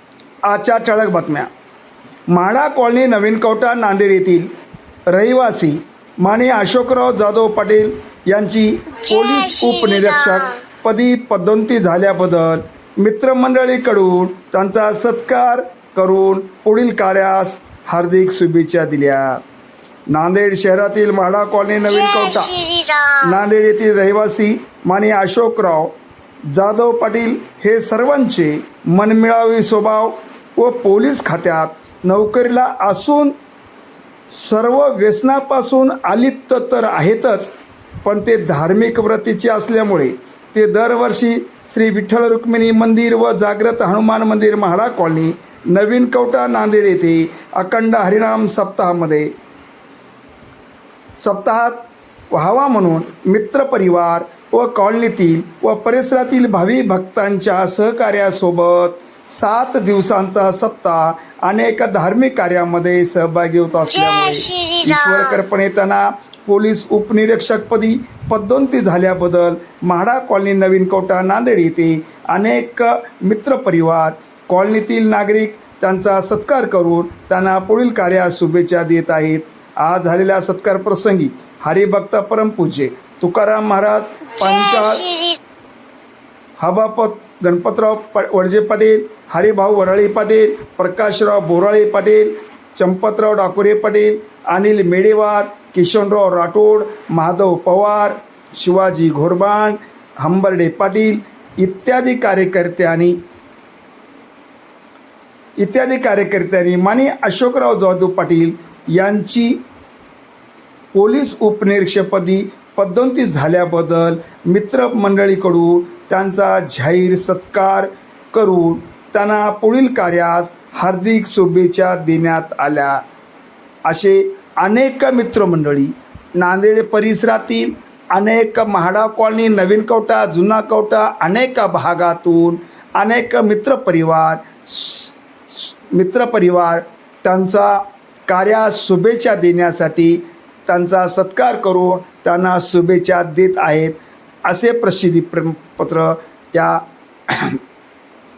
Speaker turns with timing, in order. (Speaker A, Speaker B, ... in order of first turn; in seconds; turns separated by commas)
Speaker A: 0.5-1.5, Speaker A: 2.3-4.5, Speaker A: 5.1-19.4, Speaker B: 9.1-10.6, Speaker A: 20.1-22.5, Speaker B: 21.9-23.4, Speaker A: 23.2-25.9, Speaker A: 26.5-33.4, Speaker A: 34.3-49.3, Speaker A: 51.2-85.1, Speaker B: 63.9-65.4, Speaker B: 84.4-85.4, Speaker A: 86.6-103.2, Speaker A: 105.6-109.6, Speaker A: 111.0-123.0, Speaker A: 123.8-147.6